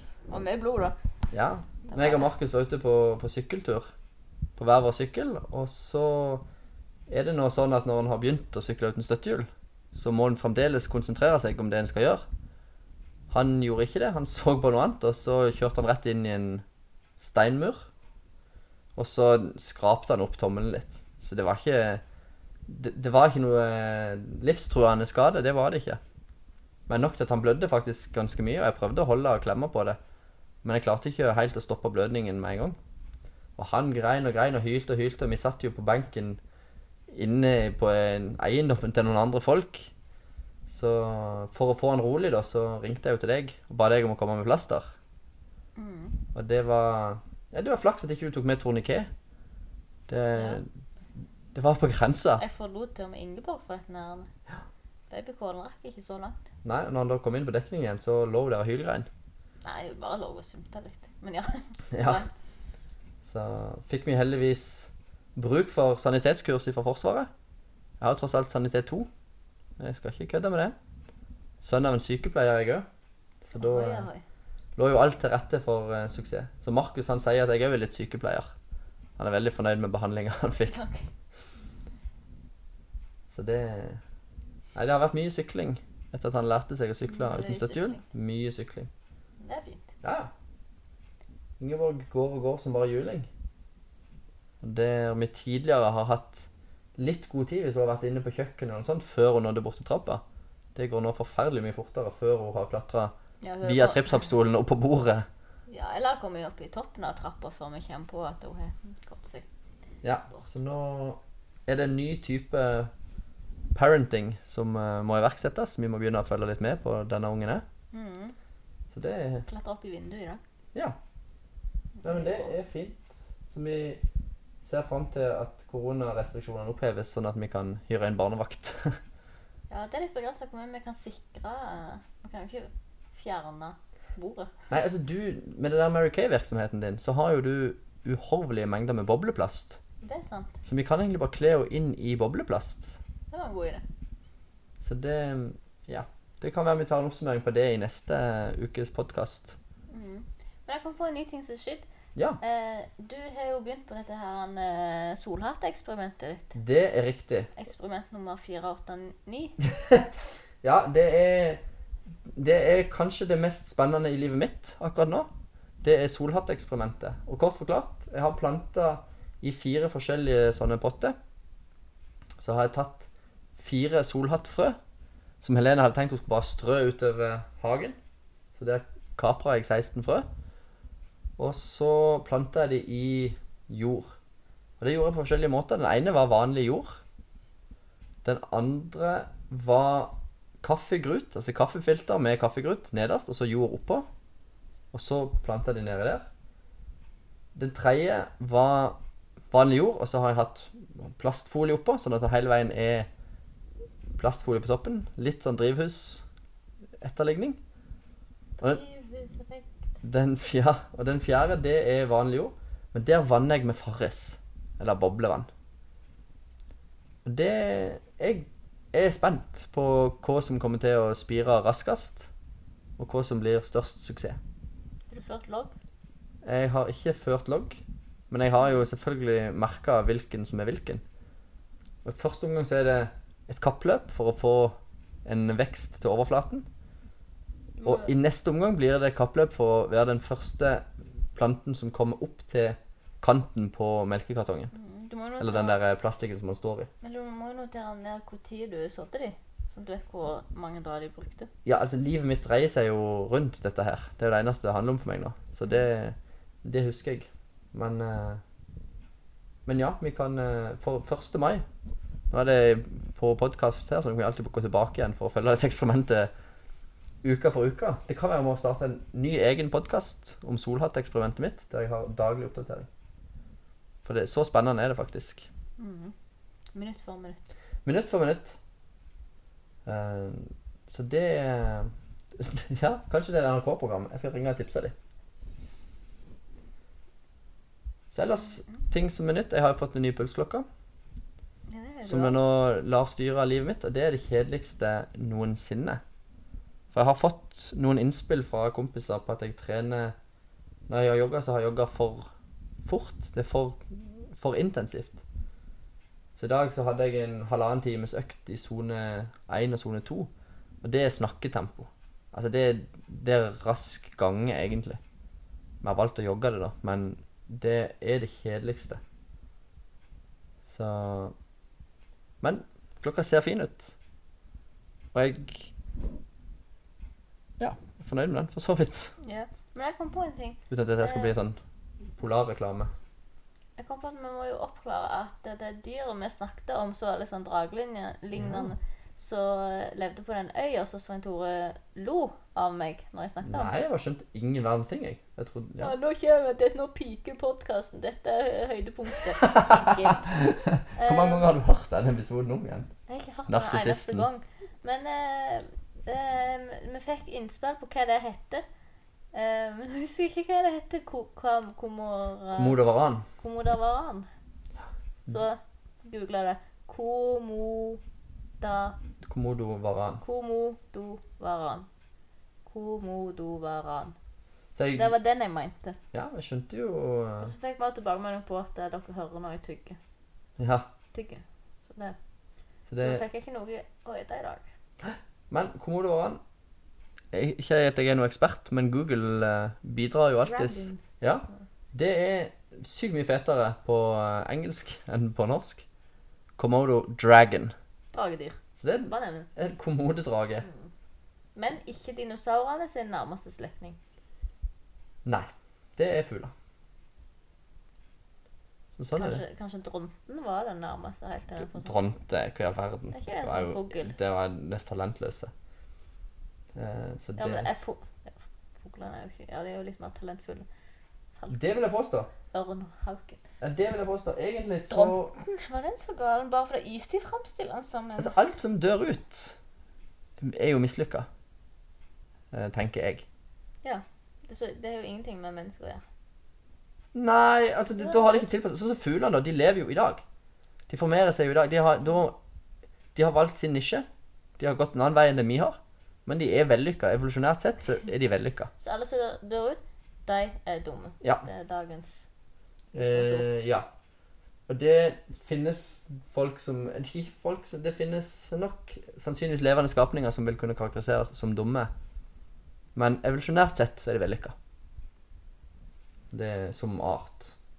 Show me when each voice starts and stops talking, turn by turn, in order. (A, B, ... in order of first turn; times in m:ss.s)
0:00.3-0:01.0 A
0:01.3-0:03.9 B
0:01.8-0:02.3 A
0:04.6-0:06.4 B
0:07.1-0:12.2 B
0:13.3-0:16.6 B
0:17.2-0:17.9 B
0:19.0-0:22.0 B
0:22.7-0:26.0 B
0:26.9-0:30.0 B
0:30.6-0:32.8 B
0:33.6-0:36.4 B
0:37.1-0:39.9 B
0:40.7-0:44.9 B
0:45.8-0:46.2 A
0:46.3-0:49.1 B
0:50.1-0:50.7 B
0:50.3-0:50.6 A
0:51.5-0:52.4 B
0:52.4-0:54.3 A
0:55.1-0:56.4 A
0:56.6-0:59.1 B
0:59.6-1:02.3 A
1:01.9-1:02.2 B
1:03.2-1:07.3 B
1:08.0-1:09.1 B
1:09.8-1:10.7 B
1:11.6-1:12.8 B
1:13.4-1:14.1 B
1:13.5-1:14.2 A
1:14.8-1:18.5 B
1:19.2-1:20.8 B
1:20.6-1:21.1 A
1:23.3-1:24.0 B
1:24.7-1:28.9 B
1:27.0-1:28.0 A
1:29.4-1:29.8 A
1:30.0-1:30.3 B
1:31.6-1:33.3 B
1:34.6-1:40.2 B
1:40.7-1:45.3 B
1:43.4-1:44.3 A
1:45.7-1:49.5 A
1:50.0-1:52.9 B
1:53.7-1:57.6 B
1:57.9-1:58.3 A
1:58.9-1:59.4 B
1:59.4-2:00.4 A
2:02.0-2:02.5 A
2:02.0-2:04.0 B
2:04.6-2:09.0 B
2:09.7-2:14.5 A
2:14.7-2:19.8 B
2:20.0-2:20.6 A
2:20.6-2:23.0 B
2:23.3-2:23.8 A
2:24.8-2:29.6 B
2:29.9-2:31.9 A
2:32.4-2:36.5 A
2:36.5-2:37.5 B
2:37.5-2:39.6 A
2:39.7-2:40.1 B
2:40.6-2:41.6 B
2:42.3-2:45.3 B
2:45.8-2:51.2 B
2:52.4-2:54.8 B
2:55.4-2:58.0 B
2:58.5-3:00.3 B
3:01.4-3:04.2 B
3:04.8-3:07.0 B
3:08.2-3:14.0 B
3:14.9-3:16.3 B
3:17.5-3:19.0 B
3:19.5-3:23.1 B
3:24.1-3:26.2 B
3:27.0-3:27.6 B
3:28.6-3:29.8 A
3:30.0-3:35.5 B
3:37.2-3:42.3 B
3:43.0-3:44.4 B
3:45.1-3:45.7 A
3:46.4-3:51.0 B
3:52.0-3:56.7 B
3:57.8-3:58.1 A
3:57.8-4:04.7 B
4:04.7-4:05.8 A
4:05.4-4:06.9 B
4:07.0-4:11.5 A
4:11.6-4:18.4 B
4:19.6-4:21.6 B
4:22.3-4:26.3 B
4:27.2-4:32.9 B
4:34.0-4:35.5 B
4:35.8-4:36.1 A
4:36.7-4:37.4 A
4:37.8-4:38.6 B
4:39.8-4:44.9 B
4:48.1-4:50.6 B
4:51.7-4:52.4 A
4:52.0-4:56.0 B
4:56.9-5:00.1 B
5:00.9-5:02.3 B
5:02.8-5:05.2 B
5:06.4-5:10.3 B
5:10.8-5:15.0 B
5:15.8-5:19.0 B
5:20.7-5:21.3 B
5:22.4-5:23.9 B
5:25.1-5:25.7 B
5:27.6-5:29.2 B
5:29.2-5:31.4 A
5:30.7-5:31.6 B
5:32.1-5:32.9 B
5:33.8-5:43.8 A
5:38.3-5:38.7 B
5:43.4-5:45.9 B
5:45.8-5:50.4 A
5:49.6-5:52.9 B
5:51.0-5:51.4 A
5:53.1-5:58.6 A
5:53.5-5:54.3 B
5:59.3-6:02.8 A
6:02.5-6:03.2 B
6:03.4-6:04.3 A
6:05.3-6:08.0 A
6:08.6-6:09.0 A
6:09.2-6:10.2 B
6:10.2-6:11.9 A
6:12.6-6:14.2 A
6:14.8-6:15.1 B
6:14.9-6:16.0 A
6:16.1-6:17.5 B
6:17.4-6:20.0 A
6:20.6-6:20.9 B
6:21.1-6:22.2 A
6:22.9-6:23.2 B
6:23.0-6:24.6 A
6:25.0-6:26.4 B
6:27.3-6:35.8 B
6:30.4-6:31.0 A
6:36.6-6:37.7 B
6:38.1-6:39.5 A
6:38.8-6:40.6 B
6:40.6-6:40.9 A
6:41.6-6:44.0 A
6:45.2-6:46.5 B
6:49.0-6:49.4 B
6:49.1-6:52.1 A
6:51.6-6:55.5 B
6:53.1-6:54.1 A
6:56.7-6:57.7 B
6:57.4-7:00.6 A
7:01.5-7:02.3 B
7:02.5-7:03.4 A
7:03.6-7:05.3 B
7:04.9-7:08.4 A
7:08.2-7:09.6 B
7:10.4-7:11.3 B
7:12.5-7:13.2 B
7:13.8-7:16.0 A
7:17.1-7:20.2 B
7:20.9-7:22.4 B
7:23.1-7:24.1 B
7:24.6-7:28.7 B
7:28.8-7:32.2 A
7:32.9-7:33.9 B
7:32.9-7:33.5 A
7:34.7-7:41.9 B
7:42.9-7:44.5 B
7:46.3-7:47.5 B